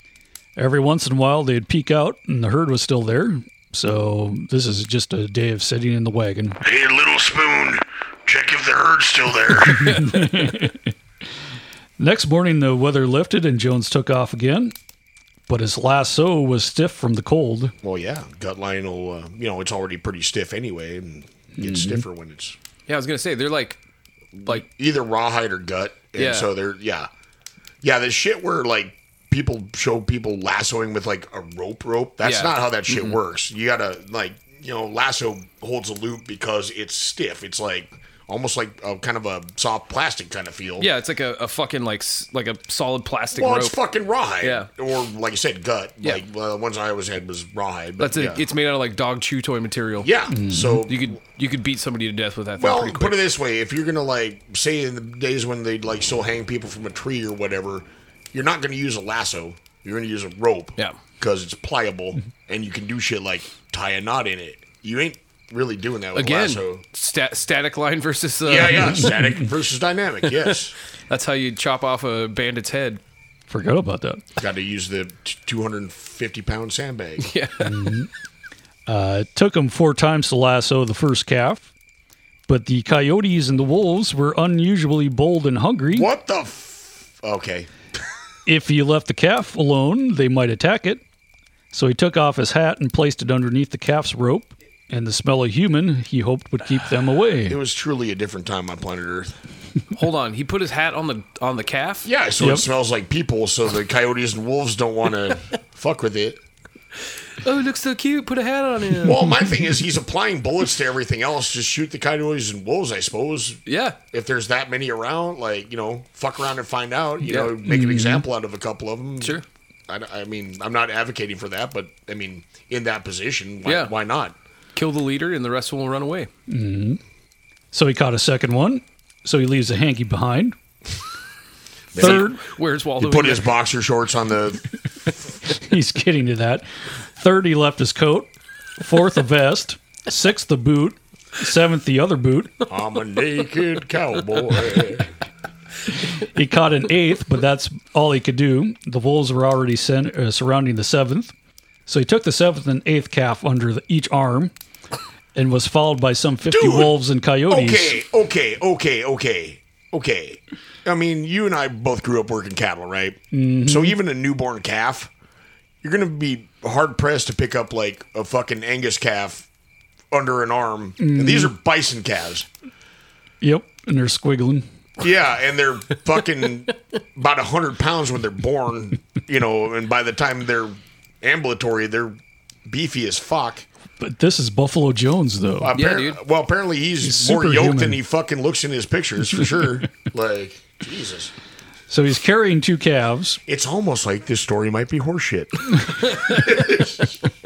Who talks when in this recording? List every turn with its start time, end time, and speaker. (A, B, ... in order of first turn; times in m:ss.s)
0:00.6-0:06.6 A
0:06.6-0:10.1 B
0:09.8-0:10.9 A
0:12.0-0:14.7 A
0:15.5-0:17.7 A
0:17.8-0:22.6 B
0:21.6-0:22.0 A
0:22.9-0:23.8 C
0:24.4-0:27.1 B
0:26.2-0:26.5 C
0:27.8-0:40.9 B
0:32.2-0:33.2 C
0:40.8-0:43.8 C
0:43.4-0:48.4 B
0:44.4-0:44.7 C
0:48.0-0:50.1 C
0:50.0-0:51.2 B
0:50.3-0:50.8 A
0:50.9-0:53.2 C
0:52.6-1:06.8 B
1:06.2-1:09.1 C
1:08.4-1:10.8 B
1:11.1-1:13.0 C
1:13.5-1:14.2 A
1:14.4-1:17.3 B
1:17.2-1:17.9 C
1:17.6-1:18.1 A
1:18.9-1:21.7 A
1:22.5-1:26.1 A
1:25.9-1:27.7 B
1:28.5-1:31.0 A
1:31.7-1:37.6 A
1:37.5-1:39.4 B
1:39.9-1:42.1 C
1:42.0-1:46.4 B
1:47.4-1:49.3 C
1:49.0-1:53.6 B
1:53.7-1:54.0 C
1:54.1-2:04.4 B
1:57.2-1:57.5 C
1:57.6-1:58.2 A
2:03.6-2:03.9 C
2:04.8-2:06.3 C
2:06.5-2:07.0 A
2:07.7-2:10.6 A
2:11.9-2:12.3 B
2:12.0-2:12.4 A
2:12.0-2:13.5 C
2:13.0-2:15.1 B
2:15.5-2:22.6 A
2:22.7-2:25.1 B
2:26.2-2:31.3 A
2:31.9-2:34.5 A
2:35.4-2:38.0 A
2:36.5-2:37.0 B
2:37.5-2:45.1 B
2:43.3-2:44.0 A
2:45.8-2:49.5 B
2:50.1-2:52.5 B
2:51.0-2:51.5 A
2:53.4-2:54.7 A
2:55.0-3:03.7 B
3:04.0-3:05.7 A
3:05.6-3:11.3 B
3:05.7-3:06.2 C
3:07.0-3:08.0 A
3:11.9-3:13.4 A
3:13.5-3:17.2 B
3:16.0-3:16.4 C